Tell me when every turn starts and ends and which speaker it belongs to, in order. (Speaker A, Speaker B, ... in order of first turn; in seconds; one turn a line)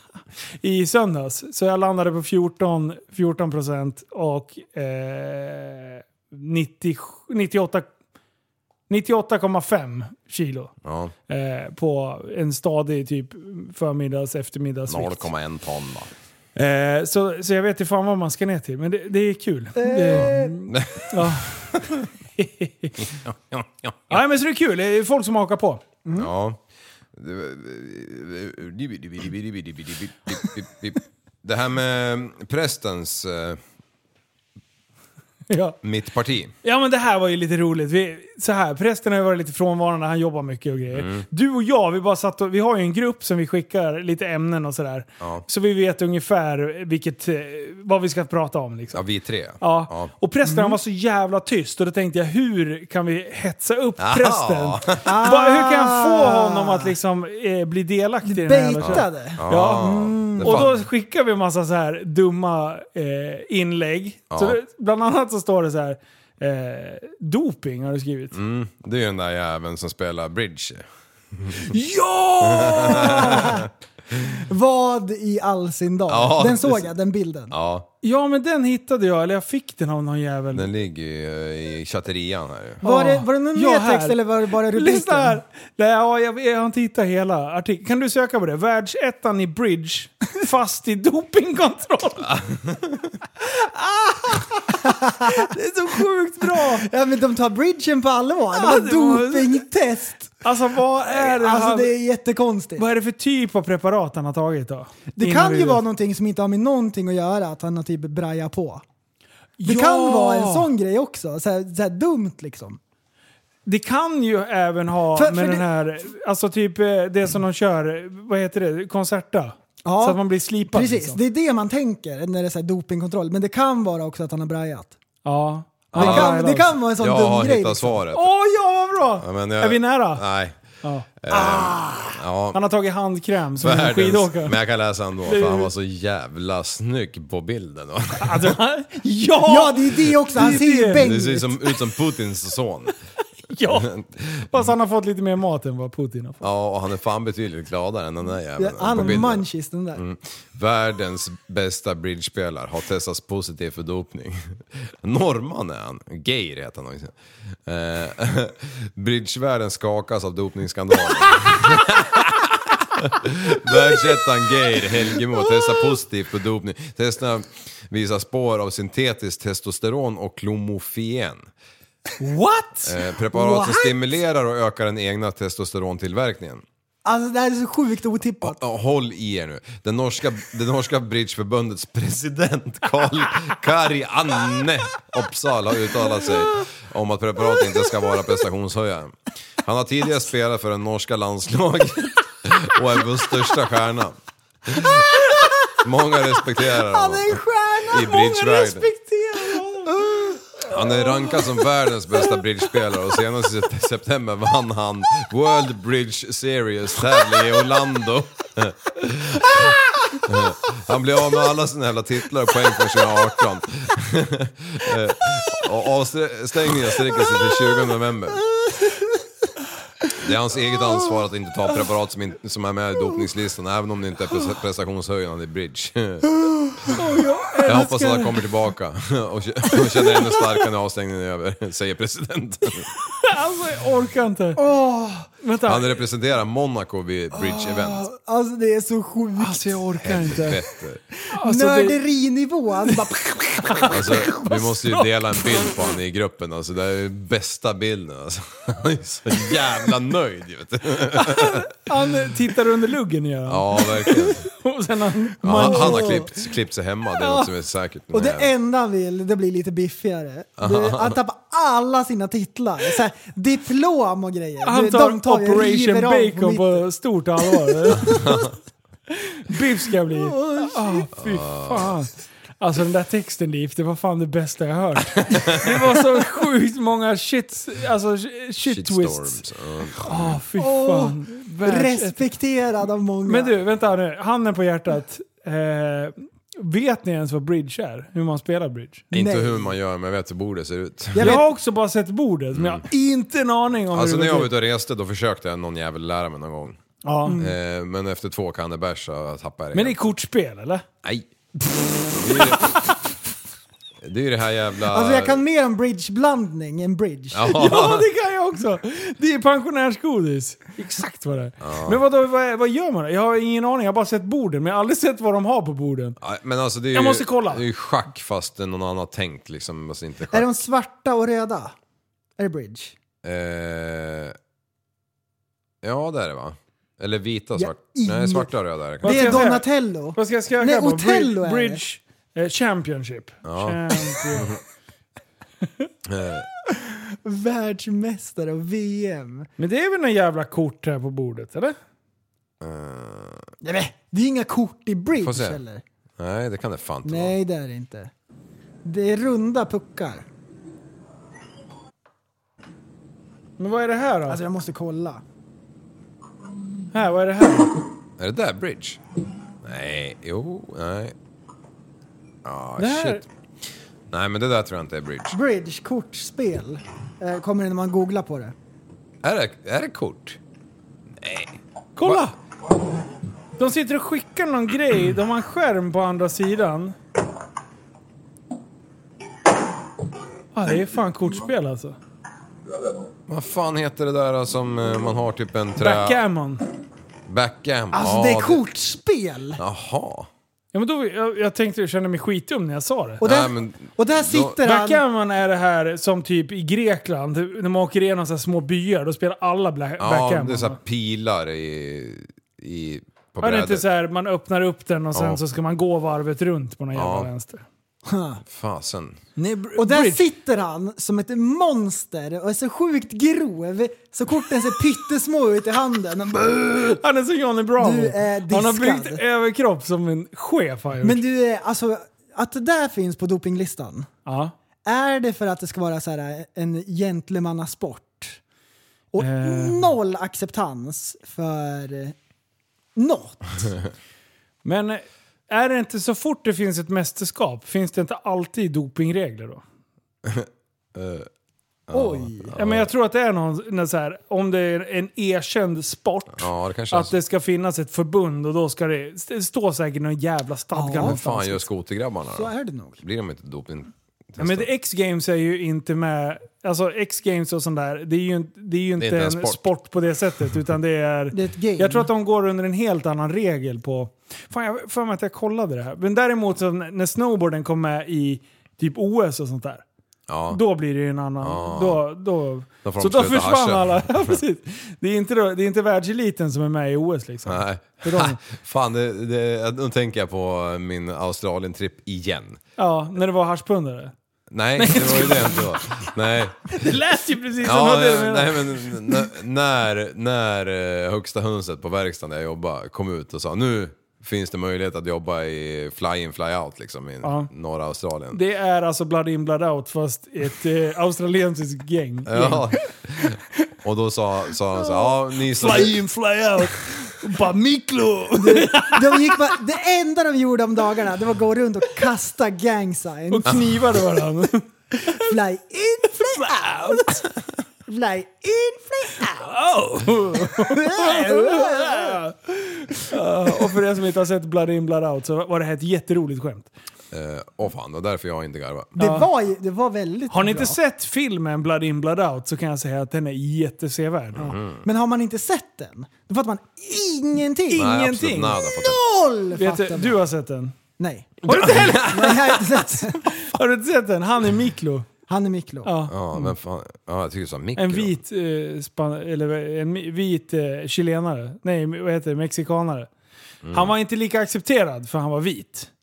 Speaker A: 0.6-7.9
Speaker A: 8.9-10.7
Speaker B: 10.8-11.1
Speaker A: 11.3-15.3
Speaker B: 14.8-16.1
Speaker A: 16.6-21.8
Speaker C: 19.8-20.6
Speaker B: 20.1-21.8
Speaker A: 22.4-22.9
Speaker B: 23.0-24.2
Speaker A: 24.1-25.8
Speaker C: 26.0-26.3
Speaker B: 26.1-26.6
Speaker B: 27.1-33.6
Speaker A: 35.5-35.8
Speaker B: 35.8-36.5
Speaker A: 36.6-49.0
Speaker B: 40.9-41.2
Speaker B: 48.9-50.1
Speaker A: 49.6-68.4
Speaker C: 50.4-50.8
Speaker B: 54.0-55.1
Speaker C: 55.0-56.9
Speaker C: 58.2-60.7
Speaker B: 58.8-60.8
Speaker B: 64.3-64.6
Speaker B: 68.3-71.7
Speaker A: 71.6-73.5
Speaker B: 72.4-73.7
Speaker C: 73.0-73.7
Speaker C: 74.3-77.5
Speaker B: 76.1-76.9
Speaker B: 77.5-77.9
Speaker A: 78.0-80.7
Speaker B: 80.5-82.8
Speaker A: 82.8-92.3
Speaker C: 82.8-85.4
Speaker B: 92.3-93.1
Speaker A: 93.4-96.8
Speaker C: 94.8-95.4
Speaker C: 96.5-100.4
Speaker A: 98.5-99.7
Speaker A: 100.4-101.9
Speaker C: 101.0-102.8
Speaker A: 102.8-105.8
Speaker C: 105.2-108.8
Speaker A: 109.6-110.7
Speaker C: 109.6-112.8
Speaker A: 113.7-121.2
Speaker C: 115.1-115.7
Speaker C: 119.8-124.9
Speaker A: 125.2-126.8
Speaker B: 125.9-128.3
Speaker C: 125.9-128.0
Speaker A: 128.1-130.2
Speaker B: 129.2-130.6
Speaker A: 130.8-131.1
Speaker B: 131.2-132.6
Speaker C: 131.3-132.2
Speaker A: 132.5-134.6
Speaker B: 133.6-138.5
Speaker A: 135.2-135.7
Speaker A: 138.2-141.1
Speaker C: 139.4-141.5
Speaker B: 140.5-142.9
Speaker A: 143.5-143.9
Speaker B: 143.7-144.6
Speaker A: 144.5-146.4
Speaker B: 146.4-171.5
Speaker C: 148.6-150.0
Speaker A: 163.7-164.0
Speaker A: 172.2-172.9
Speaker B: 172.8-176.6
Speaker C: 173.3-173.9
Speaker C: 177.0-178.6
Speaker B: 178.4-198.9
Speaker C: 194.8-195.8
Speaker C: 196.7-201.6
Speaker A: 199.5-199.9
Speaker B: 200.7-218.4
Speaker C: 218.6-219.1
Speaker B: 220.2-226.3
Speaker C: 226.4-226.9
Speaker A: 226.9-228.4
Speaker B: 227.7-232.9
Speaker A: 233.1-234.6
Speaker C: 234.6-235.3
Speaker A: 235.4-236.0
Speaker B: 235.7-238.1
Speaker C: 237.5-239.8
Speaker A: 239.4-240.6
Speaker B: 240.0-241.0
Speaker A: 241.3-242.0
Speaker C: 241.4-243.2
Speaker A: 242.9-245.1
Speaker B: 243.9-251.7
Speaker A: 251.2-256.3
Speaker B: 253.5-254.4
Speaker B: 255.4-258.5
Speaker C: 255.5-256.2
Speaker A: 257.2-257.5
Speaker C: 258.1-266.9
Speaker B: 260.6-261.2
Speaker A: 264.6-268.3
Speaker C: 267.6-268.4
Speaker B: 268.0-268.5
Speaker A: 269.1-279.4
Speaker C: 270.0-271.1
Speaker B: 271.1-271.9
Speaker B: 275.2-275.8
Speaker B: 278.6-280.4
Speaker A: 280.0-282.2
Speaker C: 280.6-283.5
Speaker A: 283.2-289.1
Speaker B: 289.1-291.4
Speaker C: 289.1-289.7
Speaker C: 291.1-291.5
Speaker A: 291.2-294.5
Speaker B: 292.5-292.8
Speaker B: 293.9-296.8
Speaker A: 297.0-297.4
Speaker C: 297.2-297.5
Speaker B: 297.4-300.0
Speaker A: 299.7-300.8
Speaker B: 302.1-302.8
Speaker A: 302.3-302.9
Speaker B: 304.0-305.4
Speaker C: 304.9-307.5
Speaker B: 307.3-308.1
Speaker A: 307.5-316.1
Speaker B: 311.6-312.0
Speaker B: 316.2-320.5
Speaker A: 316.9-317.6
Speaker C: 320.3-321.7
Speaker C: 322.4-322.9
Speaker B: 323.2-324.4
Speaker B: 325.8-329.5
Speaker C: 327.6-328.5
Speaker C: 329.0-331.8
Speaker A: 329.0-334.5
Speaker B: 333.4-334.6
Speaker B: 336.1-336.4
Speaker C: 336.8-339.5
Speaker A: 339.6-341.8
Speaker B: 342.6-343.4
Speaker C: 343.6-345.8
Speaker B: 345.2-345.6
Speaker B: 346.2-347.4
Speaker C: 347.0-348.1
Speaker C: 348.8-350.2
Speaker A: 353.6-354.4
Speaker C: 354.3-355.2
Speaker A: 356.9-357.8
Speaker B: 358.2-359.0
Speaker B: 359.6-361.1
Speaker B: 362.4-363.2
Speaker A: 362.8-363.2
Speaker B: 364.1-365.4
Speaker C: 365.3-368.5
Speaker B: 369.2-370.4
Speaker B: 371.2-372.2
Speaker A: 372.0-372.3
Speaker A: 373.6-376.9
Speaker A: 380.5-382.0
Speaker B: 383.3-386.2
Speaker A: 385.8-386.6
Speaker B: 387.3-388.6
Speaker C: 387.9-389.6
Speaker B: 389.6-390.3
Speaker A: 390.7-393.2
Speaker C: 393.2-395.0
Speaker B: 393.2-394.6
Speaker A: 394.6-400.8
Speaker B: 400.0-403.9
Speaker A: 403.4-407.6
Speaker B: 405.1-405.4
Speaker B: 406.9-407.3
Speaker C: 408.1-408.4
Speaker B: 408.4-409.2
Speaker A: 409.4-410.2
Speaker C: 409.8-417.0
Speaker A: 417.0-421.2
Speaker C: 417.8-419.2
Speaker C: 421.0-424.1
Speaker A: 424.2-424.5
Speaker C: 424.8-428.4
Speaker C: 429.1-432.1
Speaker A: 429.2-429.9
Speaker C: 432.9-433.8
Speaker A: 434.6-439.6
Speaker B: 440.2-441.3
Speaker B: 441.9-442.9
Speaker C: 441.9-442.5
Speaker A: 442.5-451.7
Speaker B: 446.3-447.1
Speaker C: 450.7-451.2
Speaker B: 450.9-454.7
Speaker C: 452.3-453.0
Speaker A: 454.4-469.8
Speaker B: 459.0-459.6
Speaker C: 461.3-462.1
Speaker B: 470.3-470.6
Speaker A: 470.5-478.4
Speaker B: 471.4-472.1
Speaker B: 472.8-474.4
Speaker B: 477.4-482.6
Speaker A: 482.8-484.1
Speaker B: 484.5-486.8
Speaker A: 484.8-486.1
Speaker A: 486.7-489.2
Speaker B: 487.6-498.4
Speaker A: 497.2-497.5
Speaker A: 498.3-502.7
Speaker B: 502.2-506.1
Speaker A: 504.8-509.5
Speaker C: 508.4-513.6
Speaker A: 513.3-515.2
Speaker C: 515.0-517.3
Speaker A: 516.3-517.1
Speaker C: 517.9-519.6
Speaker A: 519.4-526.7
Speaker C: 520.5-522.2
Speaker B: 527.1-528.9
Speaker C: 529.0-530.8
Speaker A: 529.0-529.3
Speaker A: 530.3-534.5
Speaker B: 534.3-534.8
Speaker C: 534.4-537.9
Speaker A: 537.7-538.6
Speaker B: 537.7-539.0
Speaker C: 538.7-540.2
Speaker A: 539.5-540.8
Speaker C: 541.0-543.3
Speaker A: 541.4-545.1
Speaker B: 541.5-542.6
Speaker C: 545.3-546.0
Speaker A: 545.8-546.1
Speaker B: 546.1-548.2
Speaker A: 547.8-553.1
Speaker B: 553.6-553.9
Speaker A: 553.7-555.9